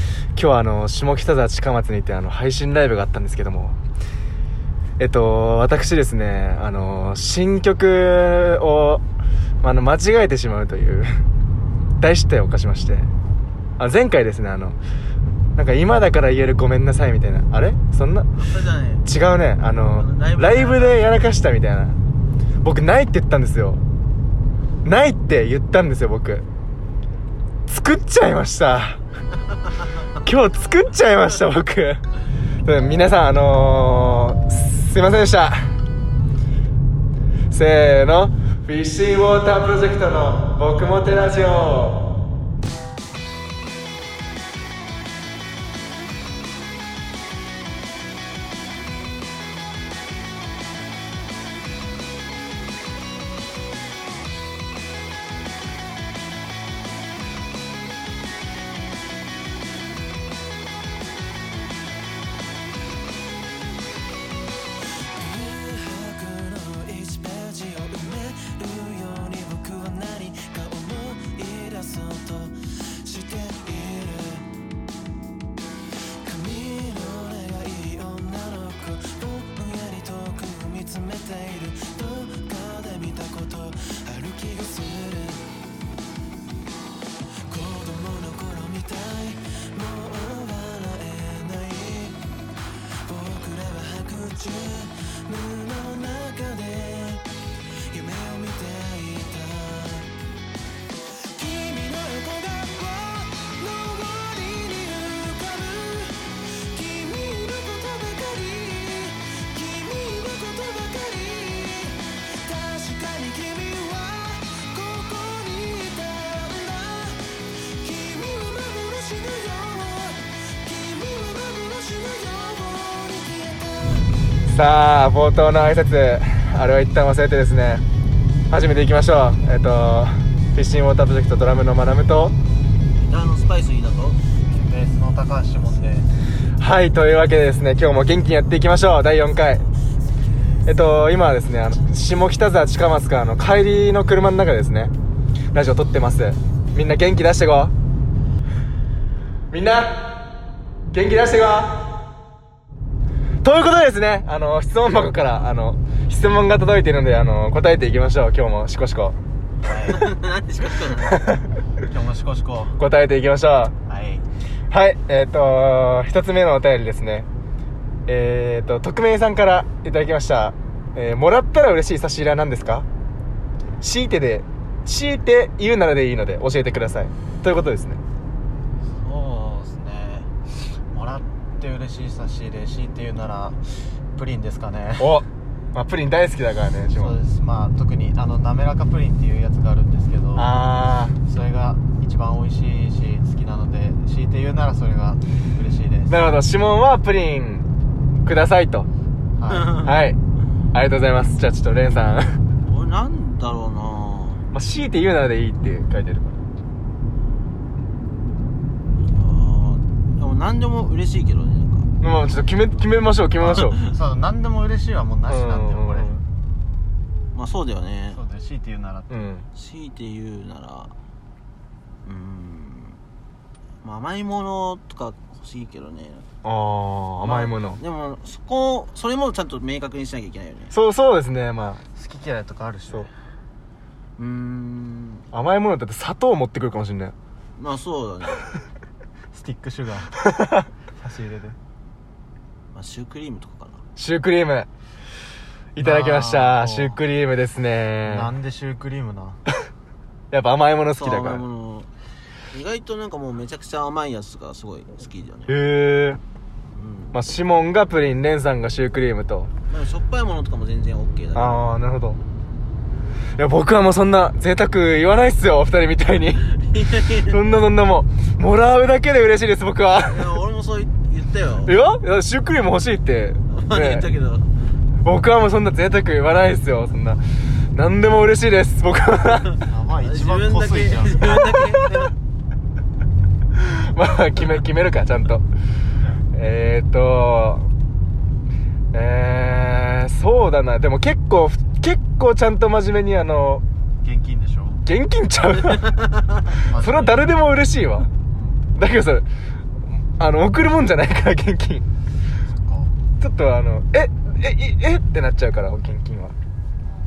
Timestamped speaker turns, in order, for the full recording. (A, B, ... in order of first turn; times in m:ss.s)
0:00.3-0:03.8 A
0:05.0-0:09.0 A
0:09.6-0:11.2 A
0:12.0-0:13.1 A
0:13.8-0:14.8 A
0:15.6-0:18.3 A
0:18.4-0:19.0 B
0:19.0-0:22.0 A
0:20.0-0:21.3 B
0:22.6-0:23.8 A
0:24.8-0:26.4 A
0:27.7-0:29.0 A
0:30.2-0:32.0 A
0:32.6-0:35.6 A
0:37.5-0:42.1 A
1:05.1-1:14.5 C
1:16.2-1:25.5 C
1:27.4-1:32.2 C
1:33.0-1:37.3 C
1:37.9-1:40.1 C
1:41.2-2:03.6 C
2:04.4-2:07.8 A
2:08.5-2:12.4 A
2:13.0-2:14.2 B
2:14.5-2:16.1 D
2:16.6-2:19.7 A
2:20.6-2:24.9 A
2:25.5-2:27.7 A
2:29.5-2:30.3 A
2:30.9-2:31.9 A
2:33.4-2:39.2 A
2:39.6-2:40.1 D
2:39.9-2:41.2 B
2:41.1-2:41.4 A
2:41.8-2:42.8 D
2:42.8-2:43.7 A
2:43.8-2:44.2 D
2:44.7-2:47.3 A
2:48.1-2:52.9 A
2:53.8-2:58.0 A
2:58.8-3:00.3 D
3:00.9-3:05.2 D
3:05.0-3:07.2 A
3:07.0-3:10.5 D
3:10.3-3:11.2 A
3:11.2-3:16.3 D
3:16.1-3:17.7 A
3:18.2-3:18.9 A
3:19.4-3:19.9 D
3:19.5-3:19.9 B
3:19.7-3:20.2 A
3:20.7-3:22.4 A
3:22.6-3:24.4 B
3:24.5-3:26.4 A
3:29.0-3:31.9 B
3:32.0-3:33.8 A
3:33.4-3:36.2 D
3:35.3-3:36.2 A
3:37.3-3:38.2 B
3:38.1-3:39.3 D
3:39.1-3:39.5 A
3:39.5-3:40.9 B
3:42.0-3:43.0 B
3:43.8-3:46.3 B
3:46.4-3:47.8 A
3:47.2-3:50.7 B
3:50.7-3:51.8 A
3:51.9-3:53.1 D
3:54.2-3:55.3 B
3:55.3-3:57.1 A
3:57.6-3:58.5 B
3:59.3-4:00.3 D
4:00.2-4:00.6 A
4:00.9-4:01.6 D
4:02.7-4:03.8 B
4:04.0-4:04.7 A
4:05.7-4:08.3 A
4:05.8-4:07.0 D
4:08.0-4:09.4 D
4:10.3-4:11.4 A
4:11.0-4:11.9 B
4:12.5-4:15.6 B
4:15.5-4:16.2 A
4:16.7-4:17.1 B
4:17.1-4:19.5 A
4:19.7-4:21.6 B
4:21.3-4:22.2 A
4:23.4-4:26.5 A
4:26.4-4:27.6 B
4:27.2-4:30.3 A
4:30.0-4:31.7 B
4:31.6-4:34.1 A
4:33.5-4:34.5 B
4:35.0-4:39.5 A
4:39.6-4:41.5 D
4:40.0-4:42.1 B
4:43.5-4:45.5 A
4:46.3-4:47.7 A
4:48.9-4:53.6 A
4:54.0-4:54.8 D
4:54.8-4:56.0 A
4:56.0-4:56.5 B
4:56.5-4:58.1 A
4:56.6-4:57.3 D
4:58.3-4:58.6 D
4:58.7-4:59.3 A
5:00.2-5:01.9 A
5:02.6-5:03.0 D
5:03.2-5:06.4 A